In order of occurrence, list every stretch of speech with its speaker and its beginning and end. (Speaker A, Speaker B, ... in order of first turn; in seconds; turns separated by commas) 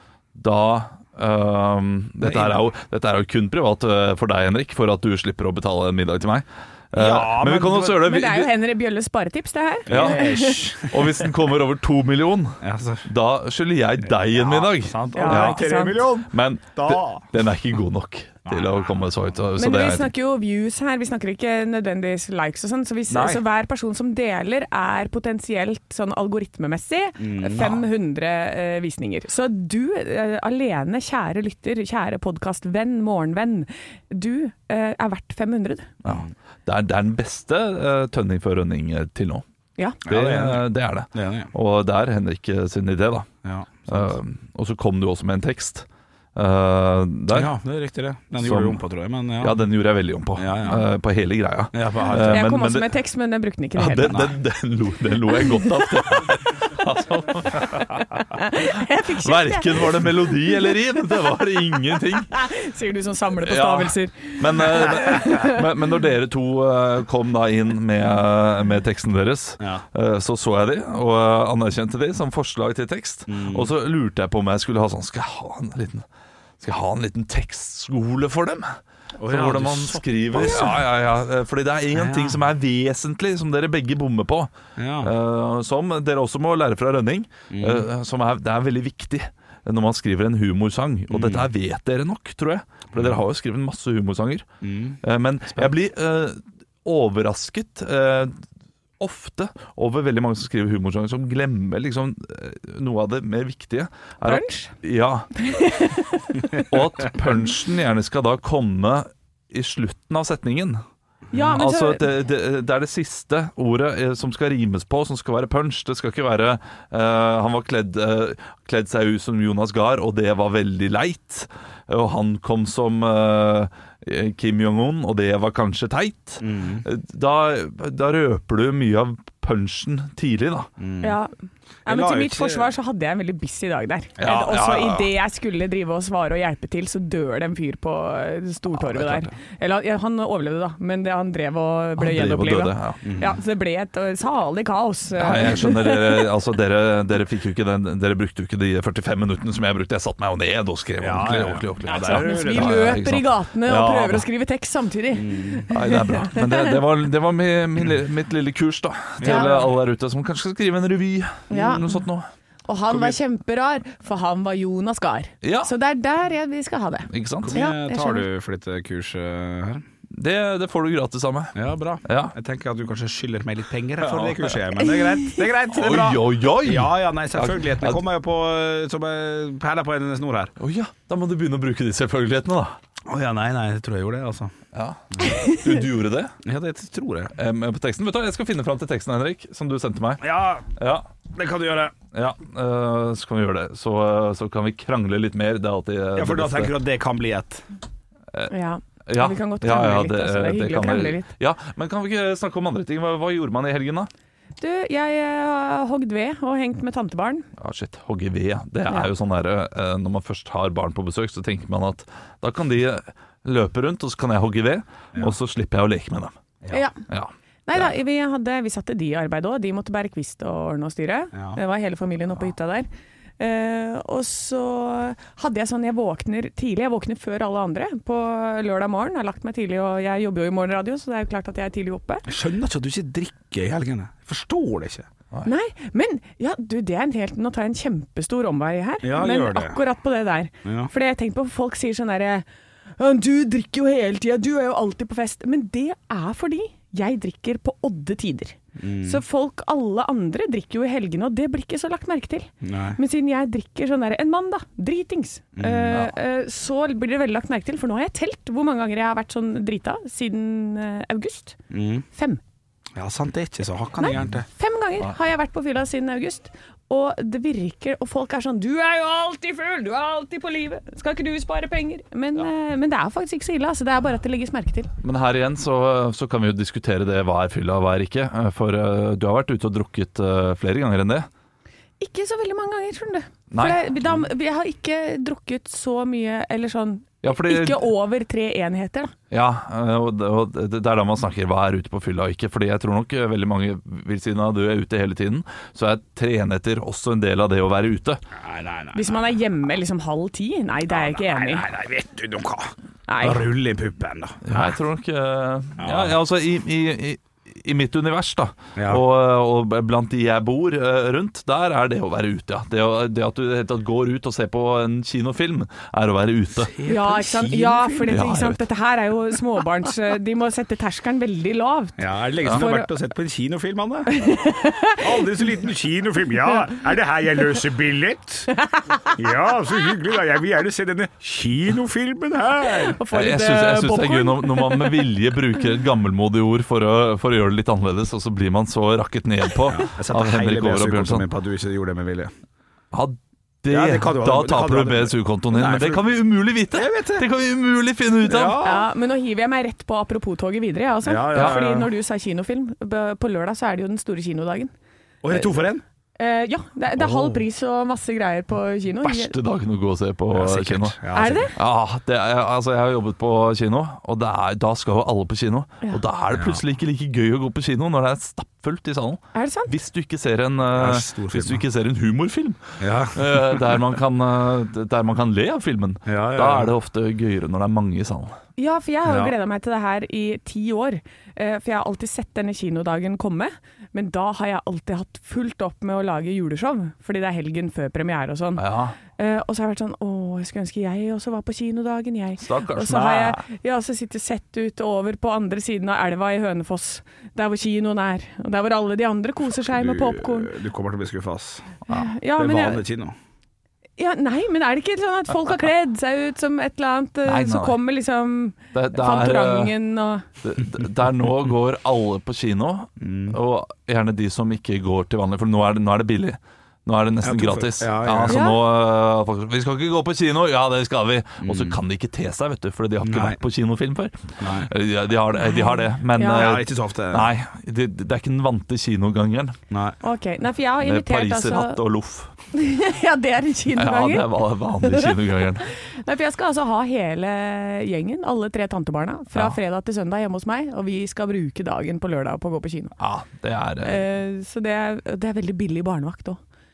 Speaker A: 0.3-8.5, Speaker B: 2.2-2.6, Speaker B: 6.9-8.0, Speaker C: 8.0-10.7, Speaker B: 9.9-11.2, Speaker A: 9.9-20.1, Speaker B: 12.6-13.1, Speaker B: 14.2-17.2, Speaker C: 15.1-16.0, Speaker B: 18.5-18.9, Speaker C: 19.6-35.9, Speaker B: 23.1-23.4, Speaker B: 27.2-27.8, Speaker A: 36.0-39.4, Speaker B: 36.0-36.3, Speaker B: 40.0-41.5, Speaker A: 40.0-43.3, Speaker B: 43.4-44.1, Speaker A: 43.9-47.5, Speaker B: 47.3-49.6, Speaker A: 48.4-48.8, Speaker A: 49.4-52.9, Speaker B: 50.4-50.8, Speaker B: 51.7-52.5, Speaker C: 52.1-54.2, Speaker A: 53.8-57.9, Speaker B: 54.1-54.4, Speaker C: 55.3-56.2, Speaker C: 57.7-60.8, Speaker A: 59.2-62.4, Speaker C: 61.9-65.7, Speaker A: 63.4-76.0, Speaker B: 69.6-69.8, Speaker B: 73.3-73.7, Speaker A: 76.6-94.5, Speaker B: 79.2-80.9, Speaker B: 81.9-82.4, Speaker B: 84.8-85.1, Speaker B: 87.5-87.9, Speaker B: 91.1-91.5, Speaker B: 94.6-95.0, Speaker A: 95.0-98.3, Speaker A: 99.0-105.3, Speaker C: 104.2-104.7, Speaker C: 105.3-106.7, Speaker A: 106.5-110.8, Speaker C: 111.3-112.0, Speaker A: 111.5-130.7, Speaker B: 126.4-126.8, Speaker B: 130.8-131.2, Speaker C: 131.0-131.3, Speaker B: 131.8-132.7, Speaker C: 131.8-146.3, Speaker A: 134.2-135.1, Speaker A: 138.8-139.3, Speaker A: 142.0-143.0, Speaker B: 143.0-143.4, Speaker A: 145.2-154.3, Speaker B: 151.0-153.0, Speaker C: 151.8-156.8, Speaker B: 155.1-155.7, Speaker A: 155.7-162.3, Speaker B: 159.2-159.7, Speaker C: 159.2-159.5, Speaker C: 161.5-161.9, Speaker B: 161.5-161.8, Speaker C: 162.7-168.2, Speaker A: 165.4-165.7, Speaker A: 167.1-167.6, Speaker B: 167.4-169.8, Speaker A: 170.1-172.3, Speaker B: 171.5-180.5, Speaker A: 174.0-174.6, Speaker A: 175.7-178.0, Speaker A: 180.6-182.8, Speaker B: 183.1-184.5, Speaker A: 184.7-186.3, Speaker B: 186.4-187.3, Speaker A: 187.4-191.1, Speaker B: 190.2-190.7, Speaker B: 191.3-191.9, Speaker A: 192.1-196.7, Speaker B: 196.2-197.6, Speaker C: 198.5-201.3, Speaker A: 199.1-204.1, Speaker C: 204.6-207.5, Speaker A: 207.6-216.4, Speaker C: 216.7-217.0, Speaker A: 217.1-217.9, Speaker C: 217.7-222.9, Speaker C: 223.4-232.2, Speaker B: 232.3-235.1, Speaker C: 235.4-242.4, Speaker B: 239.0-239.8, Speaker B: 240.6-240.9, Speaker C: 243.0-261.6, Speaker B: 248.8-249.2, Speaker B: 252.6-253.0, Speaker B: 255.6-256.1, Speaker B: 261.7-262.0, Speaker C: 262.1-262.4, Speaker B: 262.9-264.4, Speaker C: 264.0-274.9, Speaker A: 275.0-281.3, Speaker C: 282.0-289.1, Speaker A: 283.5-284.2, Speaker A: 287.2-287.9, Speaker A: 289.3-298.2, Speaker B: 298.4-299.2, Speaker C: 298.9-301.6, Speaker B: 300.9-304.7, Speaker C: 303.1-303.4, Speaker A: 304.4-316.8, Speaker B: 305.8-306.1, Speaker B: 308.8-309.0, Speaker B: 316.6-318.3, Speaker C: 316.9-322.9, Speaker A: 318.1-318.6, Speaker B: 322.0-324.1, Speaker C: 324.1-325.0, Speaker B: 325.0-328.5, Speaker C: 328.5-329.0, Speaker B: 329.1-333.0, Speaker C: 332.9-335.1, Speaker A: 333.1-341.3, Speaker B: 339.7-342.3, Speaker A: 342.9-348.6, Speaker B: 343.7-346.1, Speaker B: 346.7-347.2, Speaker B: 348.2-348.9, Speaker C: 348.6-354.7, Speaker B: 351.0-351.9, Speaker A: 351.3-351.6, Speaker B: 355.2-355.8, Speaker C: 356.2-359.3, Speaker B: 357.0-357.4, Speaker A: 359.0-361.0, Speaker B: 360.3-361.5, Speaker C: 361.1-361.5, Speaker A: 361.5-378.4, Speaker B: 366.3-366.6, Speaker C: 369.3-369.7, Speaker B: 370.7-371.6, Speaker B: 372.8-373.8, Speaker B: 376.1-376.7, Speaker C: 378.6-400.5, Speaker B: 379.1-379.3, Speaker A: 388.6-388.9, Speaker A: 392.4-393.4, Speaker B: 399.6-401.7, Speaker C: 401.9-402.8, Speaker B: 402.4-403.1, Speaker C: 404.0-410.2, Speaker A: 407.2-407.8, Speaker A: 408.7-409.7, Speaker A: 410.4-429.6, Speaker B: 413.0-413.4, Speaker B: 417.2-418.4, Speaker C: 418.3-418.6, Speaker B: 421.4-421.8, Speaker B: 423.0-423.4, Speaker B: 424.4-424.7, Speaker C: 425.4-426.5, Speaker B: 426.3-427.3, Speaker B: 429.7-430.0, Speaker C: 430.0-431.8, Speaker A: 430.8-432.3, Speaker C: 432.5-434.3, Speaker A: 433.7-435.7, Speaker C: 434.8-435.1, Speaker C: 435.6-442.9, Speaker A: 443.0-444.0, Speaker C: 443.8-446.4